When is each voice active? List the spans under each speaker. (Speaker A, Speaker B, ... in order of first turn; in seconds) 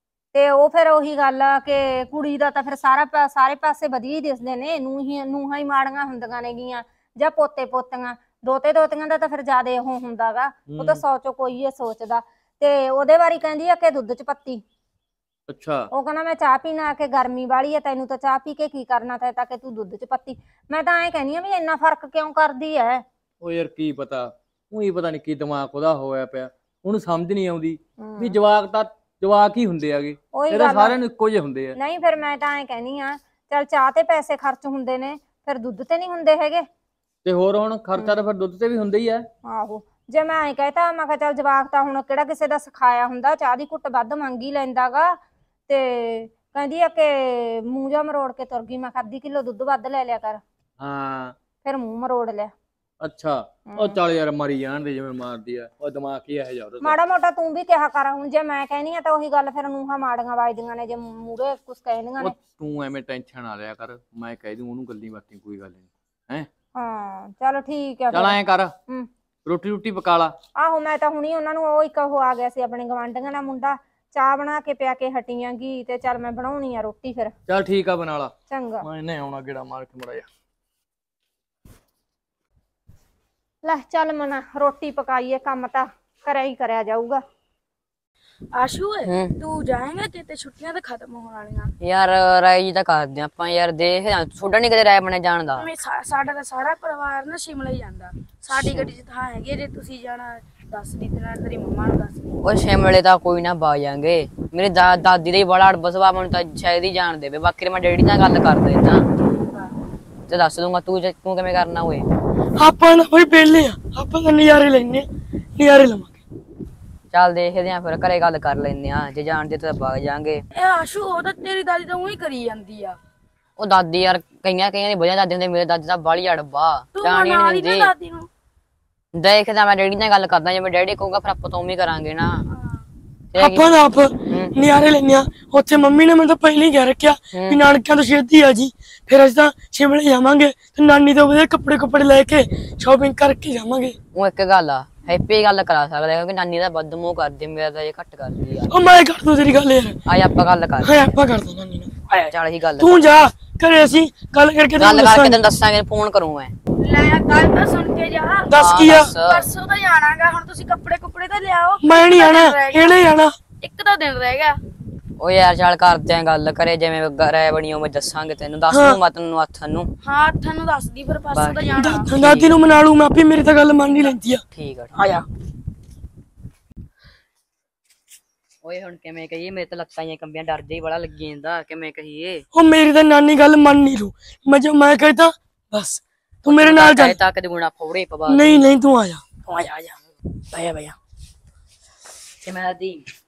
Speaker A: 0.3-14.6, 15.9-23.0, 28.0-28.4, 30.3-31.0, 31.8-36.6, 39.4-50.4, 51.6-52.5, 53.7-54.0, 56.8-62.4, 66.7-69.1, 70.5-77.3, 78.5-78.8, 83.6-87.2
Speaker B: 10.7-11.0, 15.5-15.9, 23.4-31.8, 37.2-39.2, 50.8-51.4, 53.0-57.0, 62.2-66.5, 68.1-68.7, 69.4-70.3, 77.5-80.3
Speaker C: 88.5-91.7, 95.6-102.3, 120.5-123.0, 127.0-128.3, 132.5-132.8, 156.8-158.6, 159.2-163.0, 163.6-164.6, 170.0-172.1, 175.0-175.2
Speaker D: 89.0-89.3, 91.8-95.7, 98.5-98.9, 102.4-109.0, 110.3-112.0, 117.1-120.4, 123.6-127.9, 129.2-132.5, 133.3-134.5, 137.3-137.6, 144.1-148.7, 150.1-151.2, 152.3-153.1, 154.8-156.5, 158.5-159.5, 165.2-169.9, 171.3-172.6, 174.5-174.9, 178.6-182.4, 186.4-188.7, 192.4-193.1
Speaker E: 112.6-116.2, 133.3-143.9, 148.7-150.0, 150.8-155.4, 158.5-159.1, 161.8-163.3, 168.7-169.0, 171.8-174.4, 182.5-187.2, 188.3-189.9, 190.5-190.9